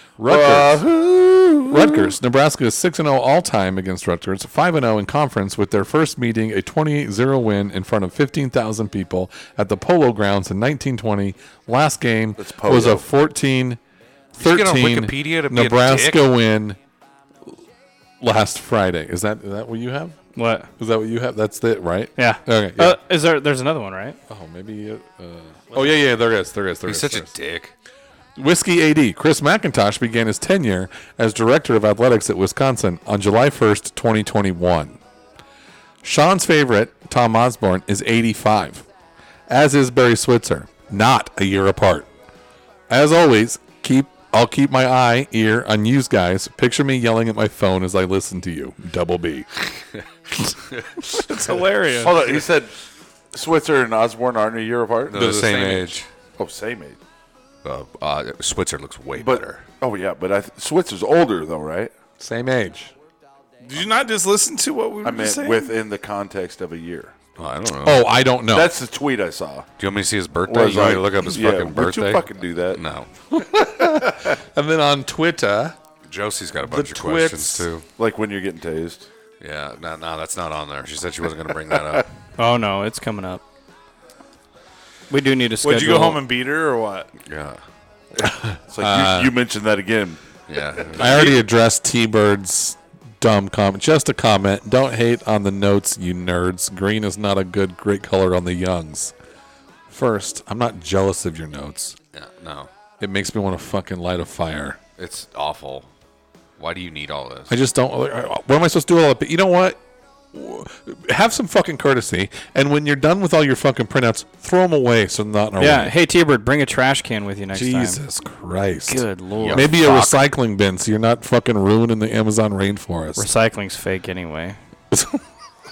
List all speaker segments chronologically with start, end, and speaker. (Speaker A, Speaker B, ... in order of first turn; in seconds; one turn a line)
Speaker A: 0.2-0.8
Speaker B: 0.3-2.1
Speaker A: 1.7-13.8
Speaker B: 12.4-13.0
Speaker A: 14.3-16.8
Speaker C: 14.4-16.3
Speaker A: 18.2-20.2
Speaker D: 20.4-20.7
Speaker A: 20.8-23.0
Speaker D: 22.2-24.2
Speaker A: 24.3-27.3
Speaker C: 26.9-27.7
Speaker A: 28.4-35.0
Speaker A: 36.0-38.9
Speaker A: 39.5-42.1
Speaker A: 42.9-49.5
Speaker D: 51.2-52.2
Speaker B: 51.9-52.7
Speaker B: 53.3-55.3
Speaker C: 55.1-56.1
Speaker A: 55.1-56.0
Speaker B: 56.4-57.0
Speaker C: 57.6-59.6
Speaker B: 59.2-61.9
Speaker A: 62.2-62.9
Speaker E: 63.6-65.7
Speaker B: 65.0-67.1
Speaker C: 67.4-68.1
Speaker A: 67.8-68.7
Speaker B: 68.5-69.7
Speaker C: 69.8-73.1
Speaker B: 70.5-72.8
Speaker A: 73.3-75.8
Speaker C: 76.1-77.8
Speaker A: 76.7-77.7
Speaker B: 78.0-79.1
Speaker C: 79.4-82.1
Speaker D: 82.4-83.4
Speaker D: 85.1-86.2
Speaker E: 85.6-87.1
Speaker C: 87.3-87.6
Speaker A: 88.2-89.3
Speaker B: 88.7-90.2
Speaker C: 90.5-91.3
Speaker B: 90.8-91.2
Speaker A: 91.0-99.1
Speaker A: 99.9-102.0
Speaker C: 102.1-102.7
Speaker A: 103.0-104.8
Speaker C: 105.0-105.9
Speaker C: 106.6-107.5
Speaker A: 107.5-109.8
Speaker A: 110.3-115.9
Speaker D: 115.6-118.0
Speaker A: 117.5-123.3
Speaker D: 118.9-119.7
Speaker C: 119.4-120.2
Speaker D: 123.2-124.6
Speaker A: 124.9-125.2